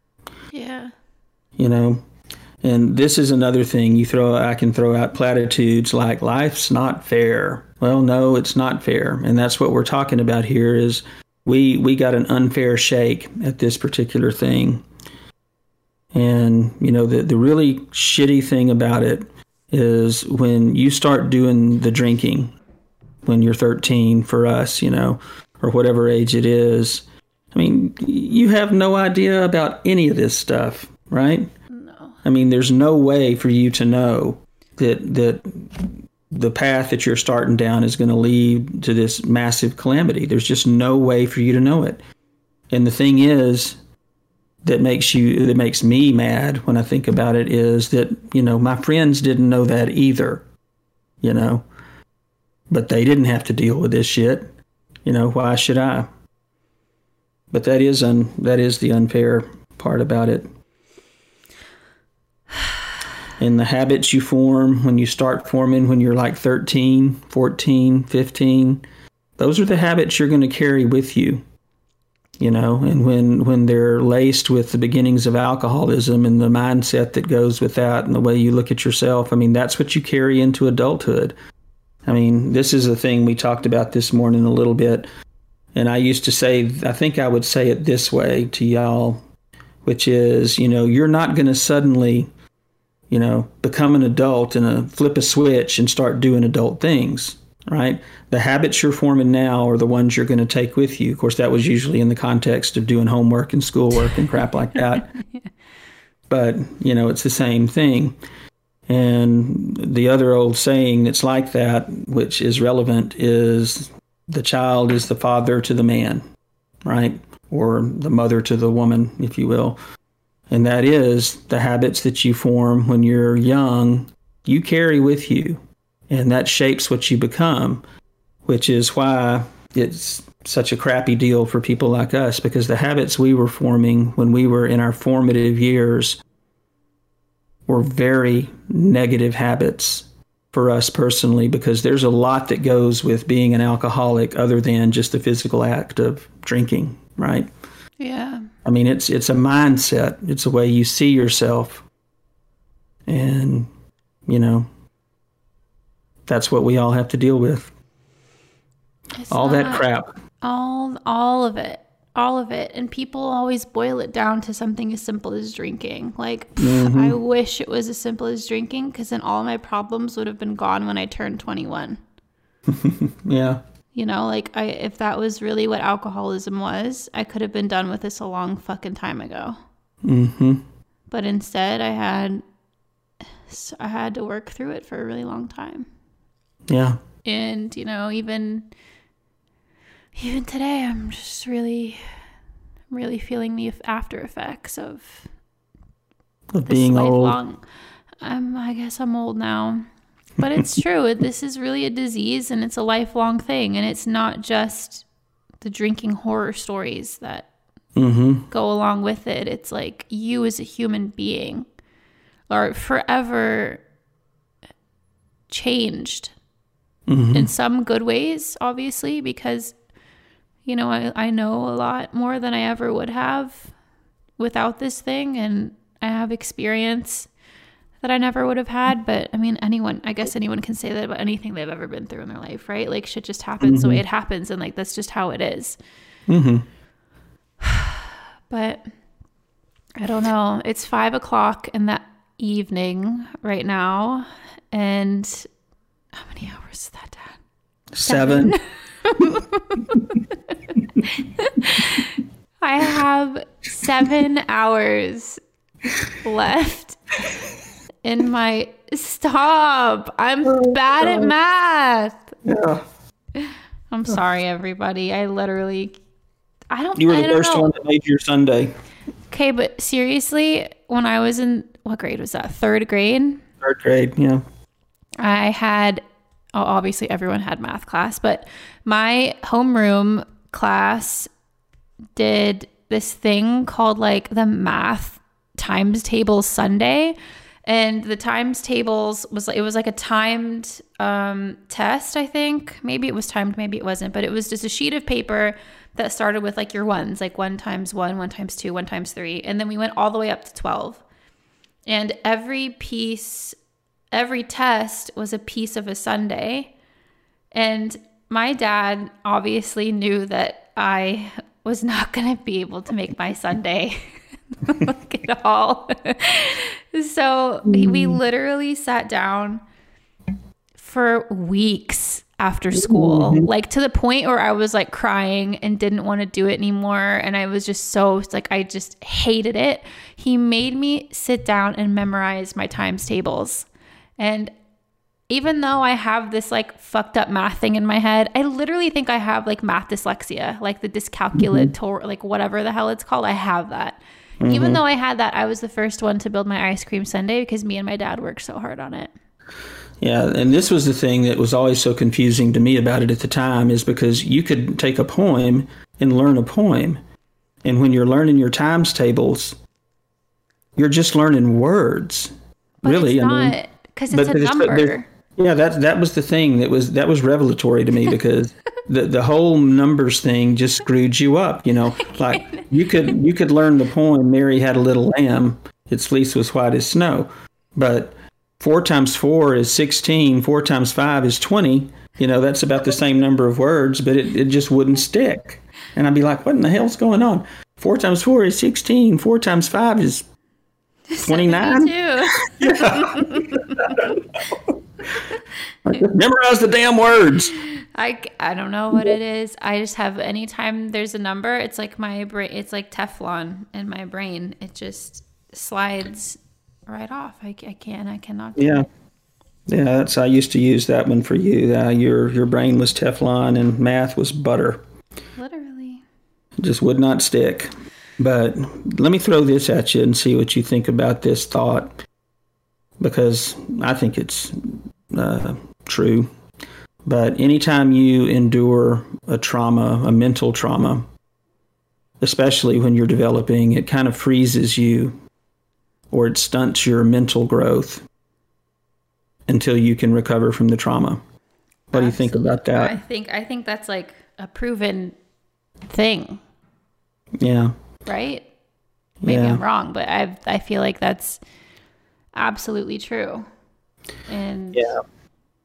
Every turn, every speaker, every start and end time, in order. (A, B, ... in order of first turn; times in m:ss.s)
0:00.5-0:00.9 A
0:01.6-0:02.0 B
0:02.6-0:14.8 B
0:16.1-0:22.6 B
0:23.2-0:31.5 B
0:31.7-0:32.2 A
0:32.2-0:42.0 B
0:42.7-0:43.8 B
0:44.6-0:50.4 B
0:51.2-0:51.7 B
0:52.7-0:54.5 B
0:55.0-0:56.1 B
0:57.5-1:00.5 B
1:03.4-1:08.8 B
1:09.4-1:11.4 B
1:12.4-1:21.4 B
1:22.1-1:25.1 B
1:25.8-1:29.2 B
1:29.8-1:32.3 B
1:33.1-1:45.1 B
1:46.3-1:48.2 B
1:48.9-1:56.2 B
1:56.8-1:59.8 B
2:00.5-2:07.8 B
2:08.4-2:16.2 B
2:17.7-2:27.5 B
2:28.0-2:28.5 A
2:28.6-2:31.8 B
2:33.1-2:33.7 B
2:34.3-2:34.7 B
2:36.3-2:37.7 B
2:39.2-2:39.9 A
2:39.3-2:40.1 B
2:40.4-2:52.0 A
2:46.6-2:47.2 B
2:52.7-2:53.6 B
2:53.9-2:59.6 A
3:00.0-3:00.6 B
3:01.1-3:02.4 A
3:03.5-3:05.9 A
3:06.7-3:07.0 B
3:07.2-3:08.7 A
3:10.2-3:12.0 A
3:12.9-3:15.3 A
3:16.5-3:17.4 B
3:16.7-3:17.6 A
3:18.2-3:19.9 A
3:20.4-3:25.0 A
3:25.6-3:27.5 A
3:28.0-3:28.5 B
3:28.5-3:31.7 A
3:32.5-3:33.8 A
3:35.5-3:36.3 A
3:37.1-3:37.5 B
3:37.3-3:39.8 A
3:40.6-3:43.7 A
3:44.4-3:47.3 A
3:48.0-3:55.8 A
3:53.6-3:54.0 B
3:56.3-3:56.6 B
3:57.6-3:58.9 A
4:00.0-4:05.5 A
4:06.1-4:07.4 A
4:07.9-4:08.6 B
4:08.0-4:10.2 A
4:11.0-4:15.4 A
4:16.2-4:17.3 A
4:18.0-4:22.3 A
4:20.5-4:21.3 B
4:22.4-4:22.8 B
4:23.4-4:26.0 A
4:26.7-4:27.7 A
4:27.0-4:28.8 B
4:29.3-4:33.4 A
4:33.6-4:34.4 B
4:35.2-4:36.0 A
4:36.6-4:41.3 A
4:42.2-5:01.0 A
5:01.9-5:03.6 A
5:04.1-5:06.7 A
5:07.5-5:19.6 A
5:17.6-5:18.2 B
5:20.8-5:33.7 A
5:22.8-5:23.5 B
5:34.2-5:34.5 A
5:35.3-5:49.1 A
5:41.4-5:41.7 B
5:44.4-5:44.8 B
5:50.0-5:57.0 B
5:57.6-5:59.6 B
6:00.8-6:02.3 B
6:02.8-6:05.1 A
6:02.8-6:03.6 B
6:04.1-6:30.2 B
6:12.0-6:13.2 A
6:31.1-6:34.1 A
6:31.3-6:34.8 B
6:35.3-6:36.0 A
6:35.9-6:37.6 B
6:37.5-6:48.9 A
6:48.6-6:48.8 B
6:49.7-6:54.8 B
6:55.4-6:56.0 A
6:56.6-7:01.9 B
7:03.0-7:06.3 B
7:07.0-7:11.1 B
7:12.2-7:15.2 B
7:16.1-7:18.0 B
7:19.5-7:21.2 B
7:21.9-7:23.0 B
7:21.9-7:25.2 A
7:25.9-7:26.4 A
7:27.4-7:27.8 B
7:28.1-7:28.5 A
7:29.2-7:29.6 B
7:29.2-7:31.4 A
7:32.4-7:33.5 A
7:34.3-7:35.0 A
7:34.7-7:35.0 B